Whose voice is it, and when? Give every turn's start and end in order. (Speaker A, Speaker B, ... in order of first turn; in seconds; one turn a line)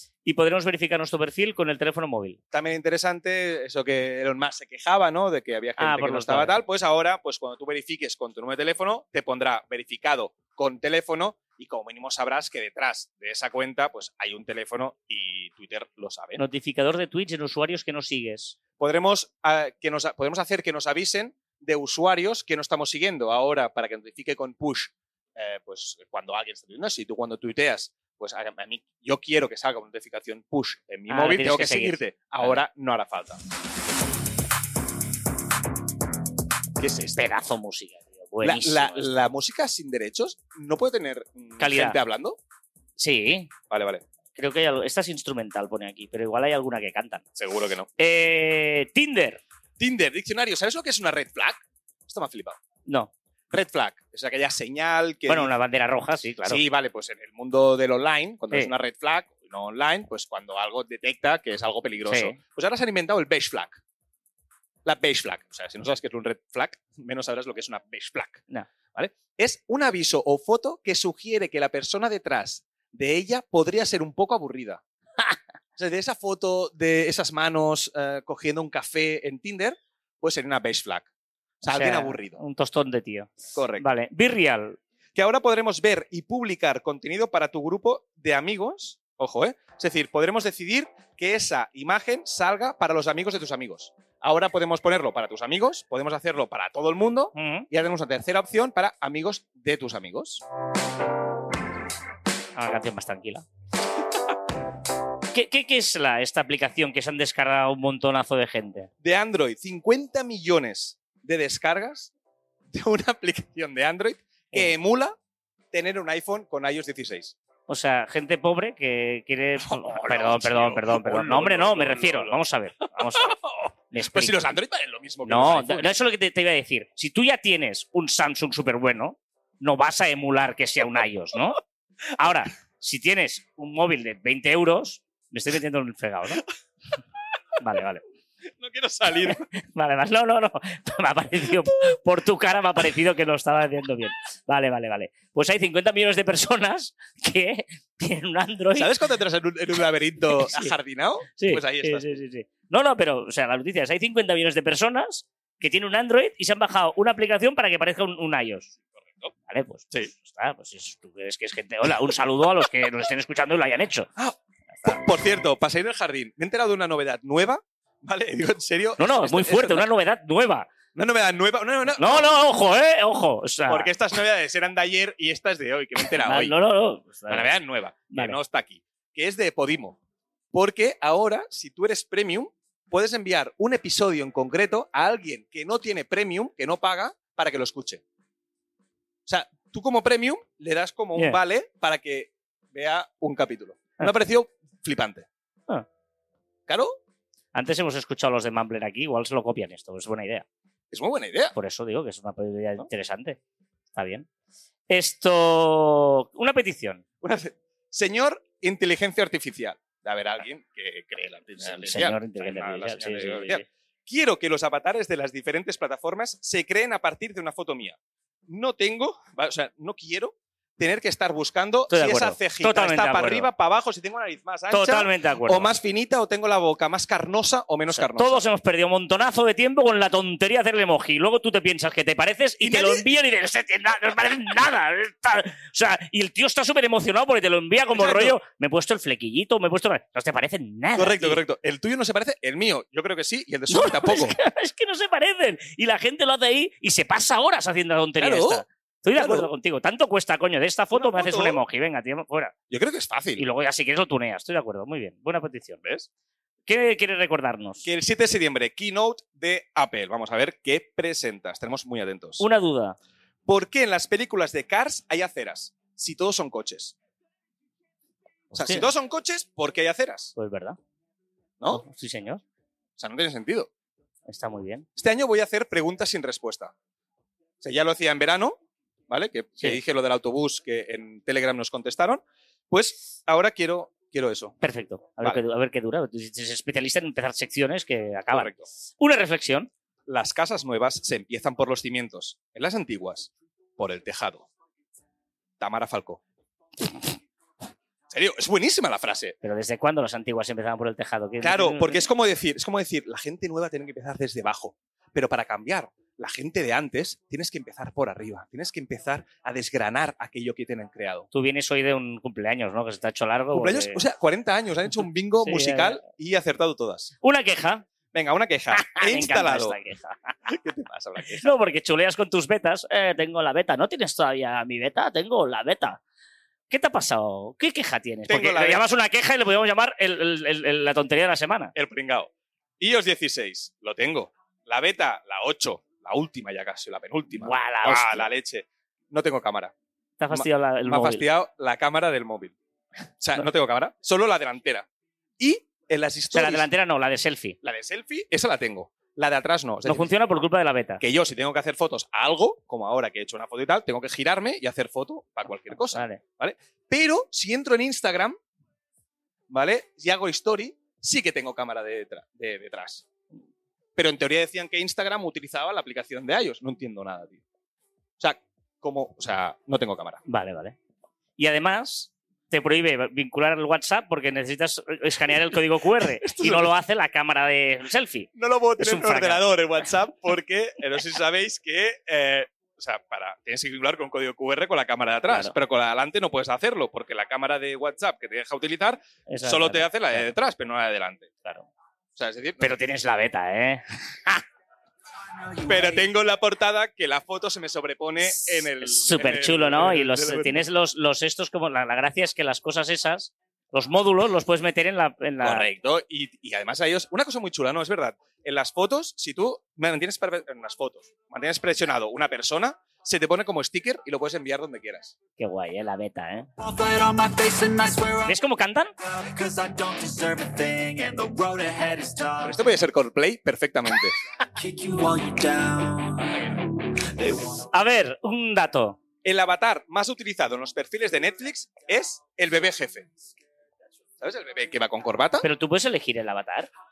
Speaker A: 0.2-2.4
Speaker B: 2.5-16.4
Speaker A: 5.8-6.5
Speaker A: 16.4-18.6
Speaker B: 18.8-33.4
Speaker A: 31.1-32.6
Speaker B: 36.8-37.2
Speaker A: 37.1-39.1
Speaker B: 38.4-42.4
Speaker A: 41.6-42.0
Speaker A: 43.0-43.5
Speaker B: 43.7-44.0
Speaker A: 44.4-47.2
Speaker B: 47.4-47.9
Speaker A: 48.0-49.4
Speaker B: 49.8-52.6
Speaker A: 52.9-53.1
Speaker B: 53.5-55.5
Speaker A: 55.3-56.6
Speaker B: 56.5-63.8
Speaker A: 62.1-62.4
Speaker B: 64.8-74.8
Speaker B: 75.8-81.1
Speaker B: 81.6-82.4
Speaker A: 81.7-84.8
Speaker B: 83.5-83.8
Speaker B: 85.2-100.4
Speaker A: 97.3-97.7
Speaker A: 102.5-103.5
Speaker A: 105.3-108.9
Speaker B: 109.0-112.1
Speaker B: 112.7-115.2
Speaker B: 115.7-117.4
Speaker A: 117.7-123.3
Speaker B: 119.6-122.4
Speaker B: 123.0-126.0
Speaker A: 123.9-124.4
Speaker A: 125.2-131.6
Speaker A: 132.2-136.4
Speaker A: 137.6-138.0
Speaker B: 138.6-139.5
Speaker A: 139.3-148.9
Speaker B: 148.8-152.1
Speaker A: 150.3-150.7
Speaker A: 151.4-158.7
Speaker A: 159.5-164.1
Speaker B: 164.2-169.8
Speaker A: 169.0-170.7
Speaker B: 170.9-172.3
Speaker A: 172.0-173.9
Speaker B: 173.7-176.5
Speaker A: 176.2-177.5
Speaker B: 177.3-180.0
Speaker A: 178.1-178.4
Speaker B: 180.5-188.0
Speaker B: 189.3-195.3
Speaker B: 196.7-197.0
Speaker A: 197.5-200.5
Speaker B: 200.9-201.5
Speaker A: 201.6-203.4
Speaker A: 203.9-204.3
Speaker A: 204.9-207.0
Speaker B: 207.2-218.0
Speaker A: 211.6-213.7
Speaker B: 218.5-228.5
Speaker A: 221.9-223.5
Speaker A: 224.7-225.7
Speaker A: 227.9-241.4
Speaker B: 232.6-233.0
Speaker B: 237.9-238.4
Speaker B: 241.0-244.4
Speaker A: 243.7-252.5
Speaker B: 248.2-248.6
Speaker B: 249.2-249.5
Speaker B: 250.9-251.6
Speaker B: 252.7-253.4
Speaker A: 253.4-255.8
Speaker A: 256.7-257.9
Speaker B: 257.9-262.4
Speaker A: 262.4-263.0
Speaker B: 263.5-266.9
Speaker B: 268.5-270.3
Speaker A: 268.5-268.9
Speaker A: 270.4-270.8
Speaker A: 271.7-272.4
Speaker B: 273.0-273.7
Speaker A: 274.3-274.9
Speaker B: 275.0-276.7
Speaker B: 277.6-278.6
Speaker B: 279.1-284.6
Speaker A: 284.6-289.7
Speaker B: 288.3-288.7
Speaker B: 290.1-294.5
Speaker B: 295.6-296.2
Speaker B: 298.1-299.4
Speaker A: 299.4-302.1
Speaker B: 301.4-311.3
Speaker A: 311.3-314.0
Speaker B: 313.5-317.1
Speaker A: 315.4-316.0
Speaker A: 317.2-317.9
Speaker B: 318.1-319.8
Speaker A: 318.7-320.4
Speaker B: 320.5-321.5
Speaker A: 321.4-326.0
Speaker A: 326.7-331.7
Speaker B: 328.3-328.9
Speaker B: 331.8-339.7
Speaker A: 337.4-338.3
Speaker A: 340.2-341.2
Speaker B: 340.3-342.5
Speaker B: 343.2-344.9
Speaker B: 345.4-346.7
Speaker A: 346.3-347.6
Speaker B: 347.6-350.1
Speaker A: 349.9-351.0
Speaker B: 351.0-358.4
Speaker A: 355.9-356.2
Speaker B: 359.5-363.1
Speaker B: 364.0-367.4
Speaker B: 368.2-370.2
Speaker A: 370.3-370.8
Speaker A: 371.4-379.4
Speaker B: 376.2-376.7
Speaker B: 378.4-391.3
Speaker A: 385.3-385.6
Speaker A: 389.3-390.3
Speaker B: 392.2-392.7
Speaker A: 392.6-394.4
Speaker C: 395.3-395.9
Speaker B: 395.7-400.6
Speaker A: 398.2-405.7
Speaker B: 405.4-415.2
Speaker A: 415.4-416.5
Speaker C: 416.6-418.4
Speaker A: 418.2-418.9
Speaker C: 419.0-422.7
Speaker B: 422.4-424.2
Speaker C: 424.6-426.6
Speaker C: 427.2-427.6
Speaker A: 427.7-429.0
Speaker B: 429.2-433.1
Speaker B: 434.2-435.4
Speaker A: 435.4-436.7